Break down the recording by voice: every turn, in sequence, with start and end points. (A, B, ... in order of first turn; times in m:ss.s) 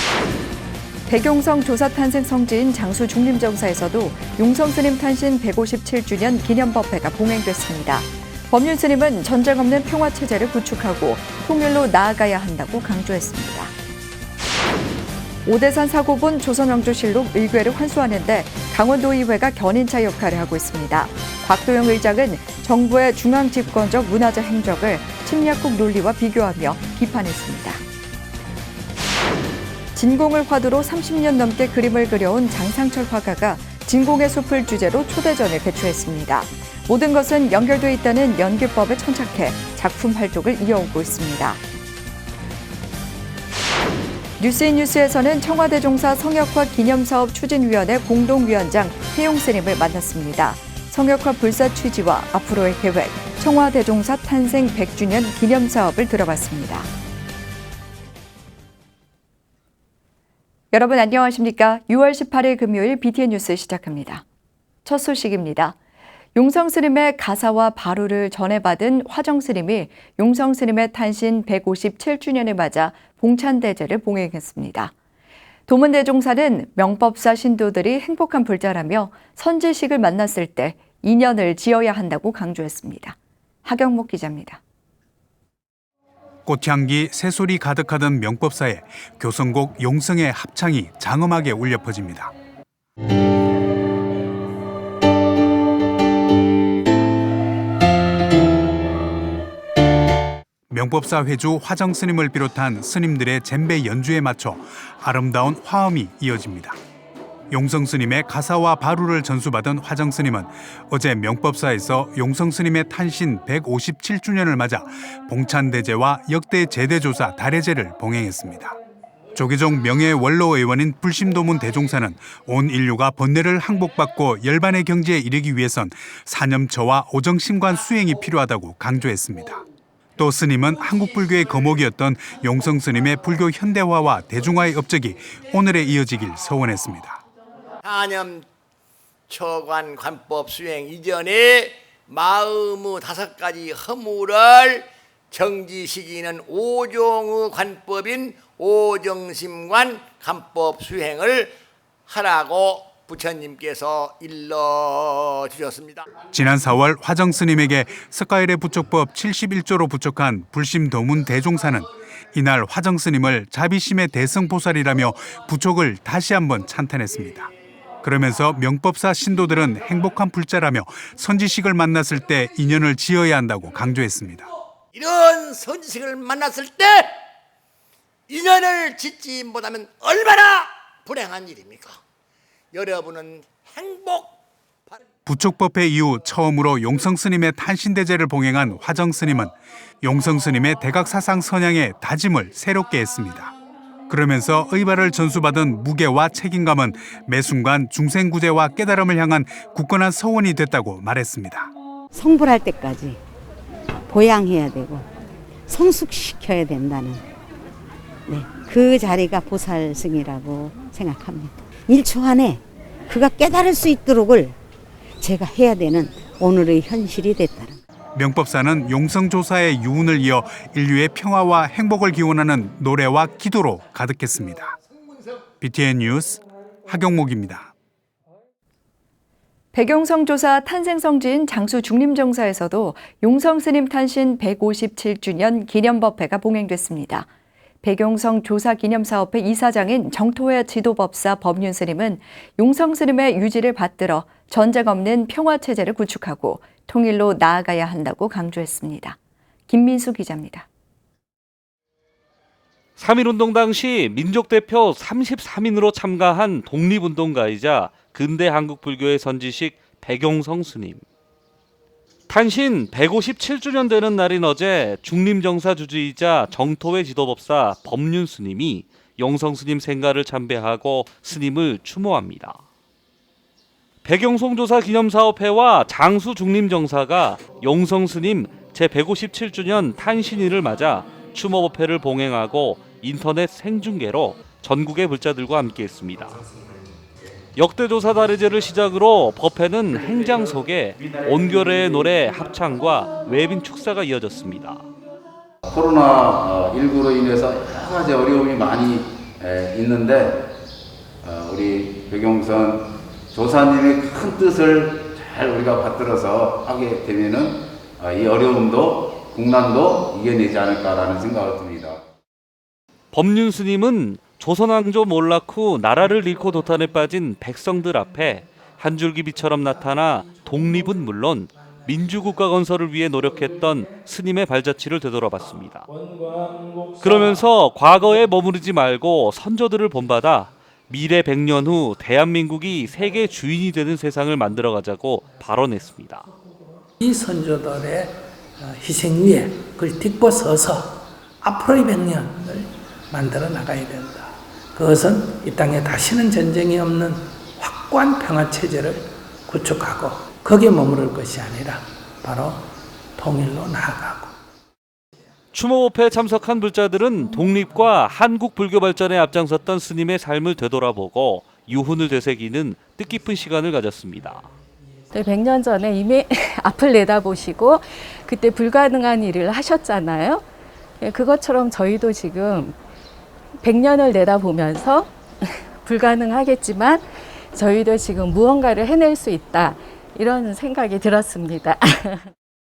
0:01.1-0:13.7 A
0:15.4-0:27.8 A
0:29.9-0:41.6 A
0:44.4-0:56.9 A
1:00.7-1:04.2 A
1:04.8-1:05.8 A
1:06.3-1:14.9 A
1:15.7-1:24.6 A
1:26.4-1:32.3 B
1:40.7-1:46.8 B
1:47.5-1:58.7 B
1:59.3-2:09.6 B
2:10.2-2:17.2 B
2:17.8-2:18.4 C
2:19.3-2:31.5 C
2:32.1-2:36.1 C
2:36.3-2:47.5 B
2:48.0-2:54.5 B
2:54.9-2:57.1 C
2:58.3-3:02.0 C
3:02.7-3:04.4 C
3:05.2-3:13.5 B
3:14.1-3:21.7 B
3:22.1-3:23.2 D
3:24.1-3:25.0 D
3:25.7-3:27.2 D
3:28.3-3:34.5 D
3:35.2-3:37.8 D
3:38.1-3:44.7 B
3:45.6-3:47.7 B
3:49.7-3:57.3 A
3:57.8-4:09.2 A
4:09.7-4:10.6 A
4:13.0-4:21.0 E
4:22.3-4:32.6 E
4:34.0-4:46.4 E
4:47.5-4:54.8 E
4:55.6-5:00.4 F
5:01.2-5:12.0 F
5:13.1-5:25.9 E
5:27.0-5:36.3 E
5:37.0-5:54.3 G
5:55.5-6:04.5 E
6:05.1-6:10.4 H
6:11.0-6:12.8 H
6:13.6-6:22.3 H